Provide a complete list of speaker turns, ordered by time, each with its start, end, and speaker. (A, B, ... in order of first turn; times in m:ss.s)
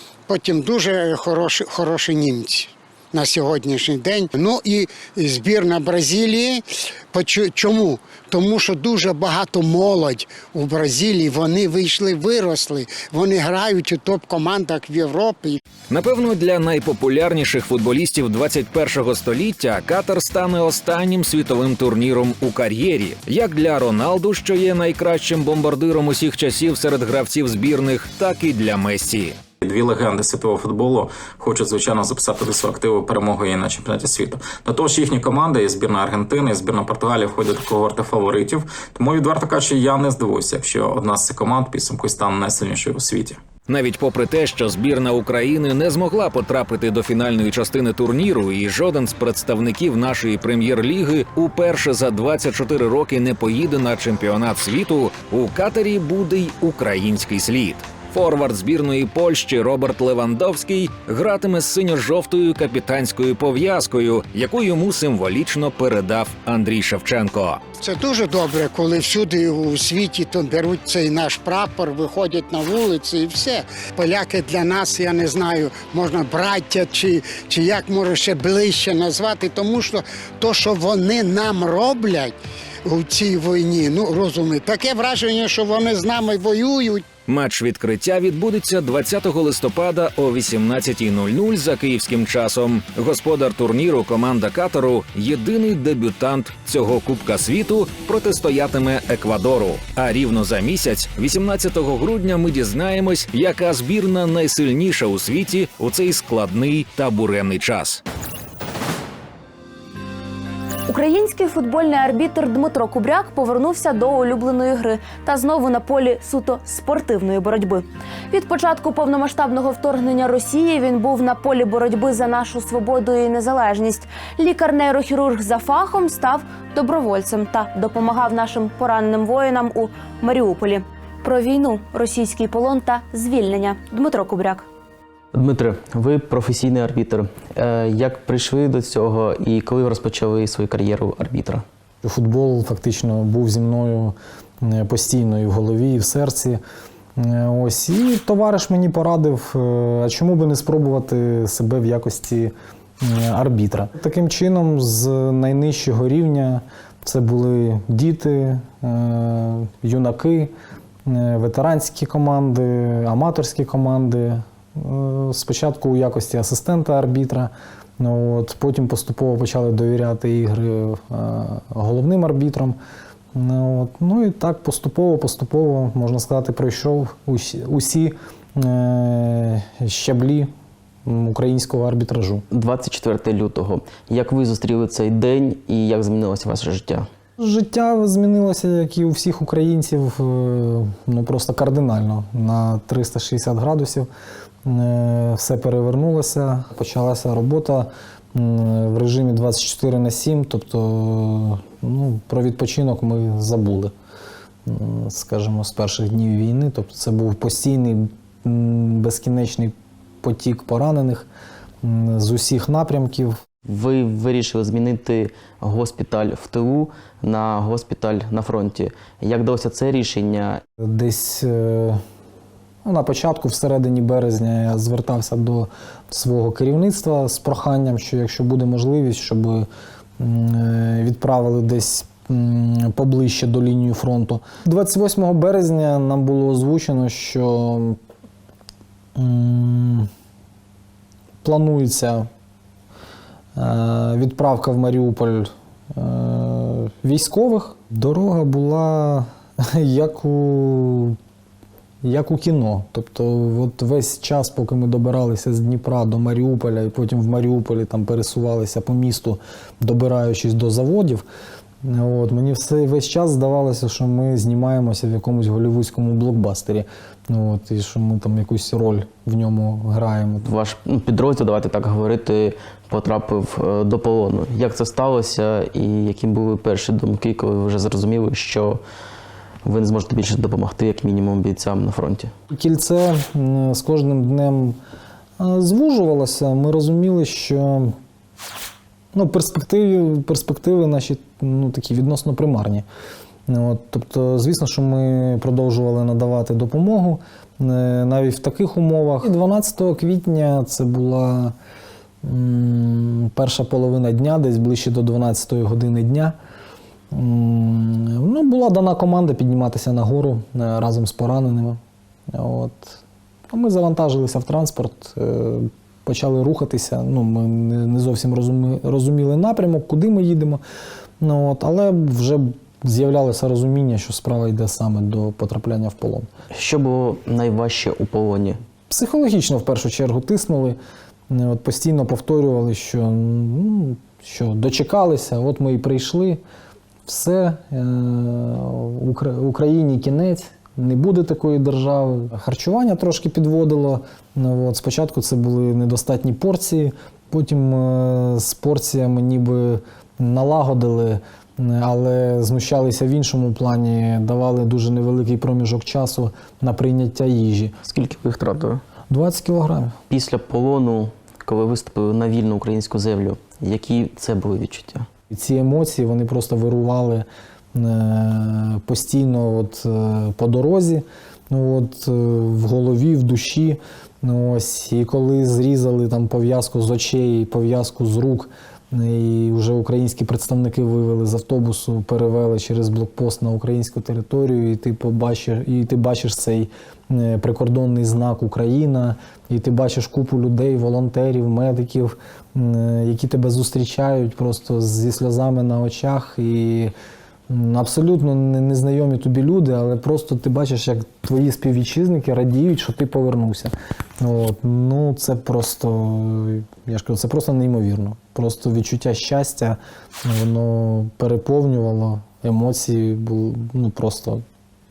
0:00.3-0:15.6 A
0:15.9-0:29.4 B
0:29.6-0:43.4 C
0:43.7-1:07.6 B
1:07.8-1:22.3 A
1:22.8-1:27.0 A
1:27.3-1:48.0 B
1:50.9-2:14.6 D
2:15.3-2:21.6 E
2:22.0-2:26.6 F
2:27.2-2:40.5 F
2:41.0-2:52.8 F
2:53.3-3:00.5 F
3:01.0-3:02.4 F
3:02.5-3:07.1 E
3:07.4-3:14.1 F
3:14.6-3:23.9 F
3:24.6-3:31.3 F
3:31.8-3:33.4 F
3:33.6-3:40.6 E
3:40.8-3:42.0 F
3:42.8-3:49.7 F
3:50.2-3:58.0 F
3:59.1-4:00.1 F
4:01.4-4:02.3 F
4:03.5-4:11.2 F
4:12.0-4:21.2 F
4:21.8-4:30.4 F
4:30.4-4:38.8 E
4:39.6-4:42.3 E
4:42.5-4:44.8 F
4:45.4-4:48.0 F
4:49.1-4:52.8 F
4:53.5-5:01.5 F
5:02.2-5:06.3 F
5:07.1-5:20.6 F
5:21.2-5:26.3 F
5:26.5-5:28.6 E
5:28.9-5:36.4 F
5:37.0-5:57.8 F
5:57.8-5:58.8 E
5:59.1-6:00.0 F
6:00.1-6:05.1 E
6:05.3-6:36.9 F
6:37.5-6:54.4 F